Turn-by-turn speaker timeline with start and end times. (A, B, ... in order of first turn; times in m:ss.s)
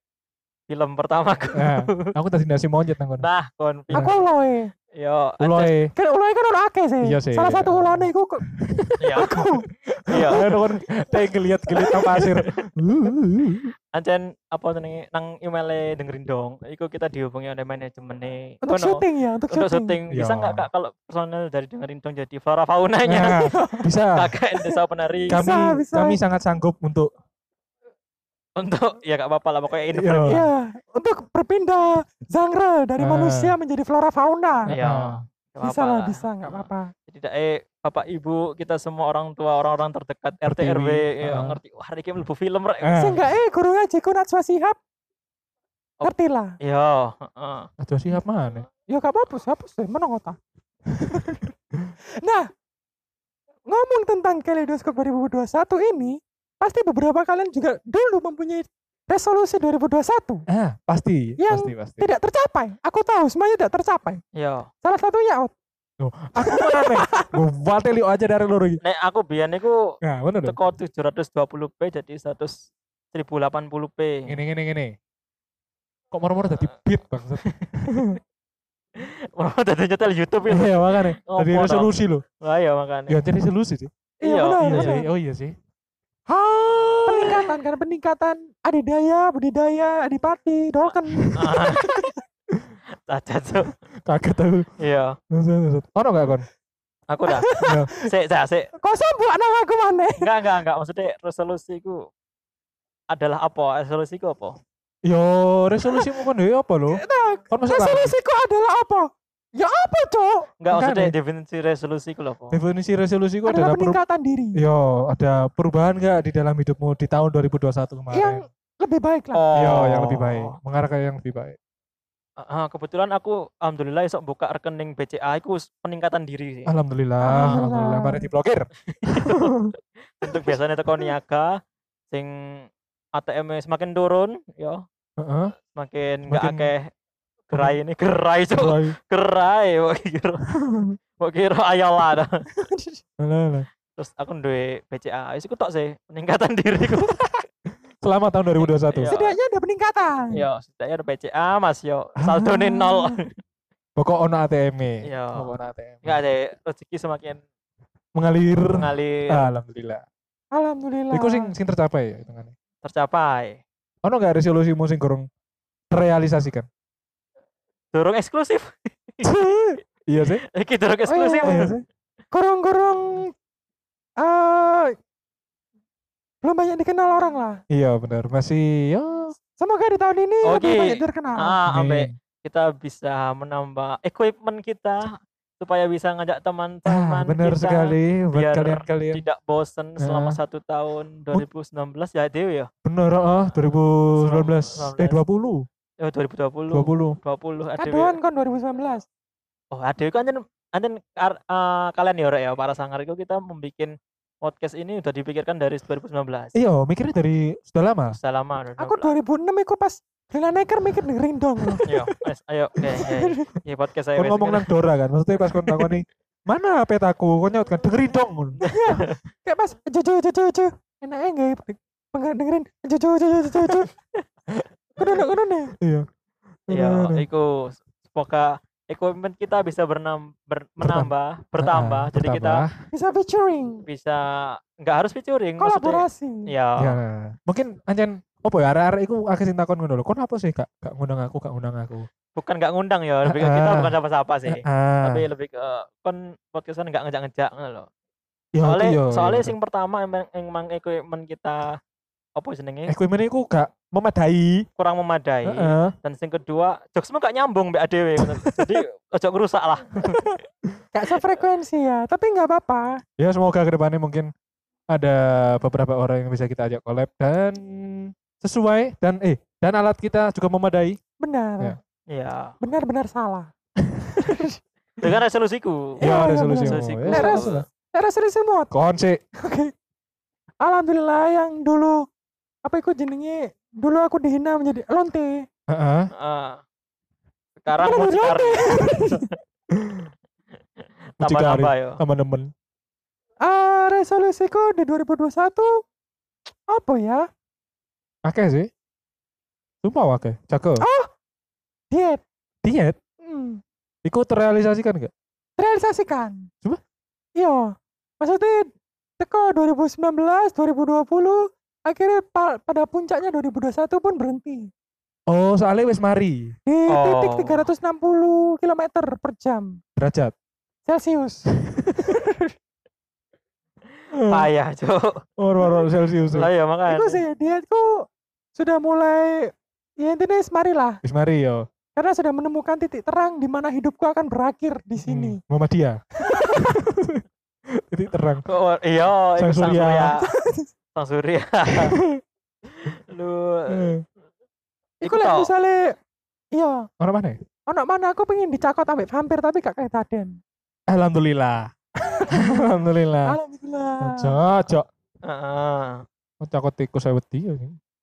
0:00.7-0:02.1 A
0:01.6-0:03.3 B
0:03.2-0:04.2 A
0:03.9-0:04.7 C
0:05.0-0:05.7 A
0:05.4-0:05.9 B
0:06.0-0:08.4 C
0:07.0-0:13.7 B
0:09.0-0:09.4 A
0:09.1-0:09.6 C
0:10.1-0:10.4 A
0:11.7-0:12.1 C
0:12.1-0:12.6 A
0:13.9-0:23.6 A
0:18.6-0:20.0 C
0:20.1-0:20.7 B
0:23.0-0:24.3 B
0:23.2-0:23.8 C
0:24.1-0:25.4 A
0:25.3-0:26.2 C
0:25.3-0:27.1 B
0:28.6-0:30.4 A
0:29.9-0:30.4 B
0:30.3-0:34.7 C
0:33.0-0:33.5 B
0:34.7-0:35.2 B
0:34.7-0:43.1 A
0:35.6-0:36.9 C
0:40.4-0:41.6 B
0:42.8-0:43.2 B
0:43.0-0:44.8 C
0:46.0-0:47.7 A
0:46.0-0:46.5 C
0:47.8-0:48.7 B
0:48.9-0:50.4 C
0:50.9-0:51.9 B
0:51.1-0:51.4 C
0:52.2-0:52.5 C
0:53.7-1:00.4 C
1:00.5-1:02.0 B
1:01.4-1:04.2 C
1:04.4-1:04.7 A
1:04.8-1:05.5 C
1:06.0-1:08.8 B
1:06.4-1:07.3 C
1:08.8-1:09.9 A
1:10.0-1:10.6 B
1:10.4-1:14.4 A
1:14.3-1:14.9 B
1:16.1-1:18.2 B
1:17.4-1:17.7 A
1:19.0-1:21.9 A
1:20.5-1:22.2 B
1:22.4-1:23.2 A
1:23.1-1:23.9 B
1:24.2-1:25.0 C
1:24.2-1:25.0 A
1:24.6-1:25.5 B
1:26.3-1:32.2 C
1:26.8-1:27.4 A
1:31.2-1:31.9 B
1:31.3-1:32.0 A
1:33.1-1:33.7 A
1:34.0-1:34.7 B
1:34.8-1:35.2 A
1:35.3-1:36.4 B
1:37.1-1:38.7 A
1:37.3-1:37.7 C
1:37.6-1:37.9 B
1:38.8-1:40.3 C
1:40.2-1:42.0 A
1:43.1-1:44.6 A
1:45.0-1:48.1 B
1:46.9-1:50.5 C
1:50.6-1:52.6 A
1:50.7-1:51.1 B
1:52.5-1:54.0 B
1:53.4-1:54.6 C
1:54.6-1:58.4 B
1:58.1-1:59.4 C
1:59.3-2:00.6 A
1:59.5-2:01.6 B
2:02.4-2:06.7 A
2:06.7-2:09.7 B
2:07.2-2:08.2 C
2:08.9-2:09.6 A
2:10.2-2:11.6 A
2:12.1-2:14.8 A
2:15.2-2:15.5 B
2:15.7-2:16.9 A
2:16.3-2:16.7 B
2:17.5-2:20.5 A
2:18.6-2:19.0 B
2:20.5-2:21.0 B
2:21.2-2:22.4 A
2:22.6-2:23.0 C
2:23.2-2:23.7 B
2:24.0-2:27.3 A
2:28.0-2:29.1 B
2:28.6-2:29.4 A
2:29.1-2:30.4 C
2:30.3-2:33.3 A
2:32.2-2:32.6 B
2:34.0-2:36.2 B
2:35.0-2:35.5 A
2:36.0-2:37.4 A
2:38.2-2:40.0 B
2:38.7-2:39.4 A
2:40.5-2:41.5 C
2:41.1-2:42.5 B
2:42.8-2:43.6 A
2:44.0-2:45.3 B
2:45.9-2:46.7 B
2:47.9-2:49.3 A
2:49.2-2:50.4 B
2:50.5-2:51.7 A
2:51.1-2:51.7 C
2:51.4-2:51.8 B
2:52.3-2:53.3 C
2:54.2-2:54.9 C
2:56.4-2:57.6 C
2:57.7-2:59.3 B
2:59.6-3:01.6 C
3:00.4-3:12.7 A
3:01.7-3:02.1 B
3:06.9-3:09.2 B
3:10.0-3:10.4 B
3:12.8-3:15.7 B
3:14.1-3:15.2 A
3:16.0-3:18.2 A
3:16.7-3:17.2 B
3:17.8-3:19.0 C
3:19.7-3:26.5 A
3:26.6-3:28.2 B
3:28.1-3:29.1 A
3:28.8-3:31.8 C
3:31.6-3:32.1 B
3:31.8-3:34.7 A
3:33.1-3:33.5 C
3:34.2-3:38.6 B
3:38.6-3:39.1 A
3:38.6-3:43.9 C
3:45.0-3:45.7 C
3:45.8-3:46.1 B
3:46.7-3:47.2 B
3:46.7-3:52.6 A
3:50.8-3:52.7 B
3:52.9-3:53.8 C
3:53.9-3:57.0 A
3:55.6-3:56.4 C
3:56.8-4:02.1 B
4:02.4-4:07.9 A
4:03.2-4:03.9 B
4:04.4-4:05.2 B
4:08.5-4:09.5 B
4:08.6-4:11.8 A
4:12.4-4:12.9 A
4:12.9-4:14.7 B
4:14.8-4:20.3 A
4:15.4-4:15.9 B
4:18.2-4:18.8 B
4:20.9-4:23.0 C
4:23.2-4:24.3 B
4:24.9-4:31.0 B
4:31.2-4:31.8 C
4:32.1-4:32.5 A
4:32.6-4:33.5 C
4:33.8-4:34.2 B
4:34.1-4:34.6 C
4:35.0-4:37.6 A
4:36.0-4:38.7 C
4:36.0-4:37.6 B
4:38.7-4:39.2 B
4:39.4-4:39.7 C
4:40.6-4:42.0 C
4:42.6-4:45.4 C
4:45.7-4:46.1 B
4:46.1-4:46.6 A
4:47.6-4:49.3 A
4:47.8-4:49.3 C
4:49.7-4:50.1 B
4:51.2-4:52.0 A
4:51.2-4:52.5 B
4:53.4-4:55.8 C
4:56.7-4:57.3 C
4:58.2-4:58.7 B
4:59.8-5:00.8 B
5:00.8-5:01.1 C
5:01.9-5:02.2 C
5:02.6-5:03.0 B
5:03.2-5:03.6 C
5:04.0-5:05.1 B
5:05.6-5:06.5 C
5:07.4-5:14.7 C
5:15.3-5:16.5 B
5:16.7-5:19.8 C
5:16.9-5:17.7 A
5:20.0-5:20.3 B
5:20.9-5:22.5 C
5:21.7-5:22.2 B
5:24.1-5:24.5 B
5:24.2-5:25.2 A
5:25.4-5:26.5 B
5:26.3-5:27.2 A
5:26.9-5:31.0 C
5:31.0-5:31.6 B
5:32.0-5:35.4 C
5:35.0-5:36.0 B
5:36.2-5:36.8 C
5:36.5-5:38.4 B
5:38.5-5:40.2 A
5:39.4-5:40.1 B
5:40.1-5:40.7 C
5:41.0-5:42.0 A
5:41.7-5:42.2 B
5:42.7-5:43.9 A
5:43.7-5:44.0 B
5:45.0-5:45.5 A
5:45.0-5:45.9 C
5:46.5-5:46.9 C
5:47.0-5:47.4 B
5:47.7-5:50.4 C
5:50.9-5:53.4 B
5:52.2-5:52.6 C
5:53.2-5:54.4 C
5:54.0-5:54.9 B
5:55.2-5:56.0 A
5:56.4-5:57.8 B